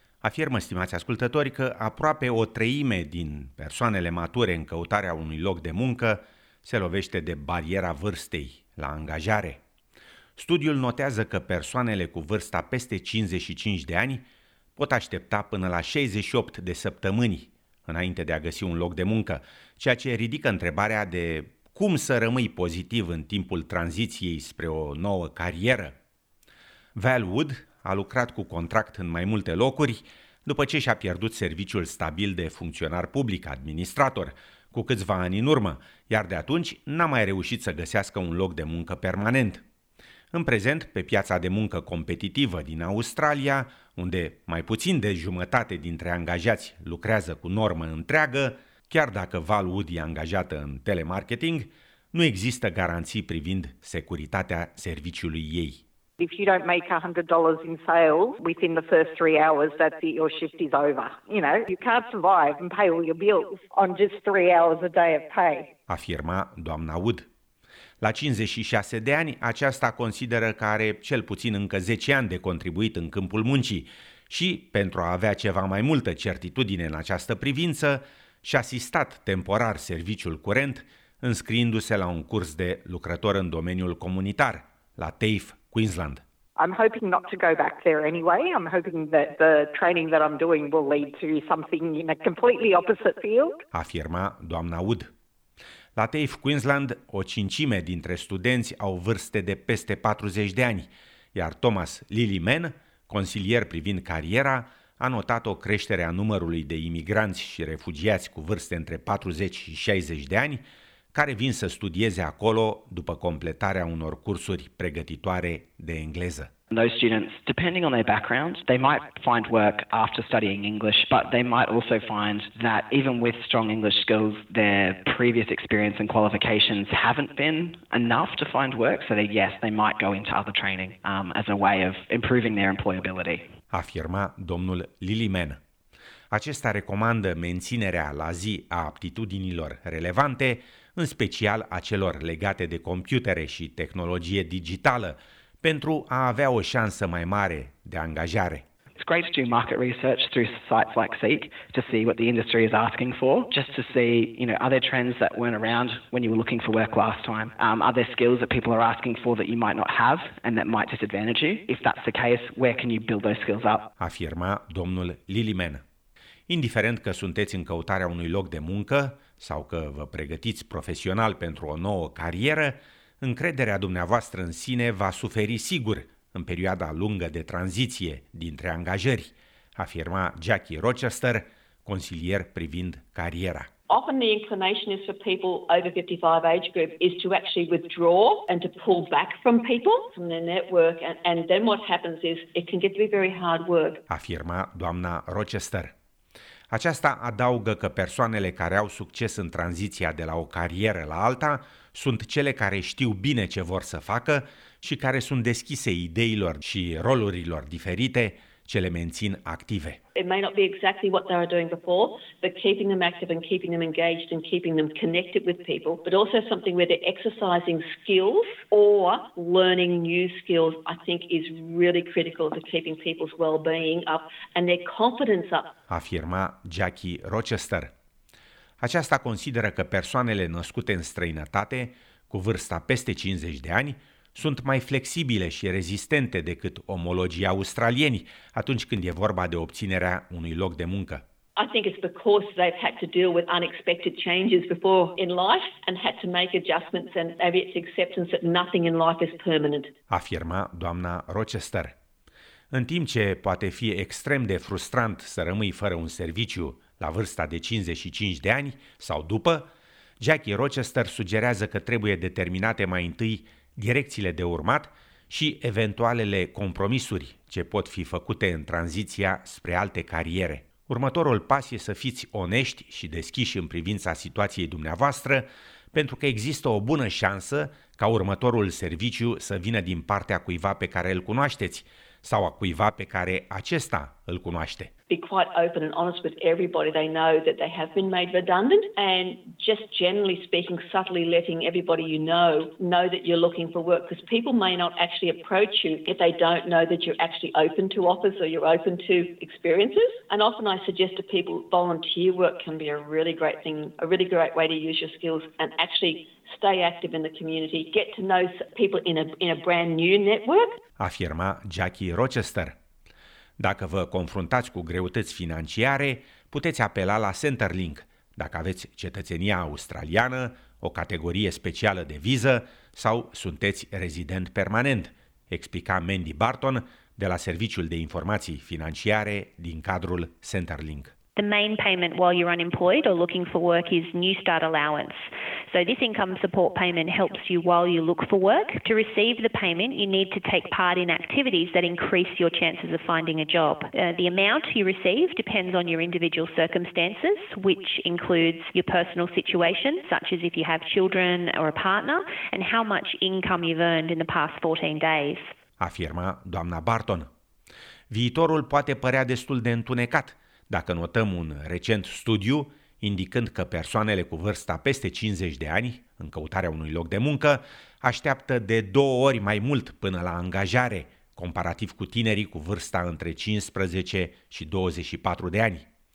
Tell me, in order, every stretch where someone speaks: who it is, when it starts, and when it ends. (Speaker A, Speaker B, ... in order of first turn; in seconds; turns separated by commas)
Speaker A: 0.2-9.6, Speaker A: 10.4-14.2, Speaker A: 14.8-26.0, Speaker A: 26.9-39.6, Speaker A: 40.3-55.8, Speaker B: 56.2-65.7, Speaker A: 65.9-67.3, Speaker A: 68.0-86.2, Speaker B: 86.5-93.6, Speaker A: 93.7-95.1, Speaker A: 96.0-116.5, Speaker C: 116.7-133.5, Speaker A: 133.7-135.6, Speaker A: 136.3-148.6, Speaker C: 149.0-163.9, Speaker A: 164.0-165.8, Speaker A: 166.5-183.7, Speaker D: 183.9-194.0, Speaker A: 194.1-195.9, Speaker A: 196.7-210.0, Speaker D: 210.1-225.7, Speaker A: 225.9-227.9, Speaker A: 228.8-241.2, Speaker D: 241.6-249.9, Speaker A: 250.1-251.9, Speaker A: 252.7-259.7, Speaker A: 260.2-284.9, Speaker D: 285.1-310.8, Speaker A: 311.0-312.8, Speaker A: 313.6-331.1, Speaker E: 331.4-355.4, Speaker A: 355.8-357.3, Speaker A: 358.1-375.9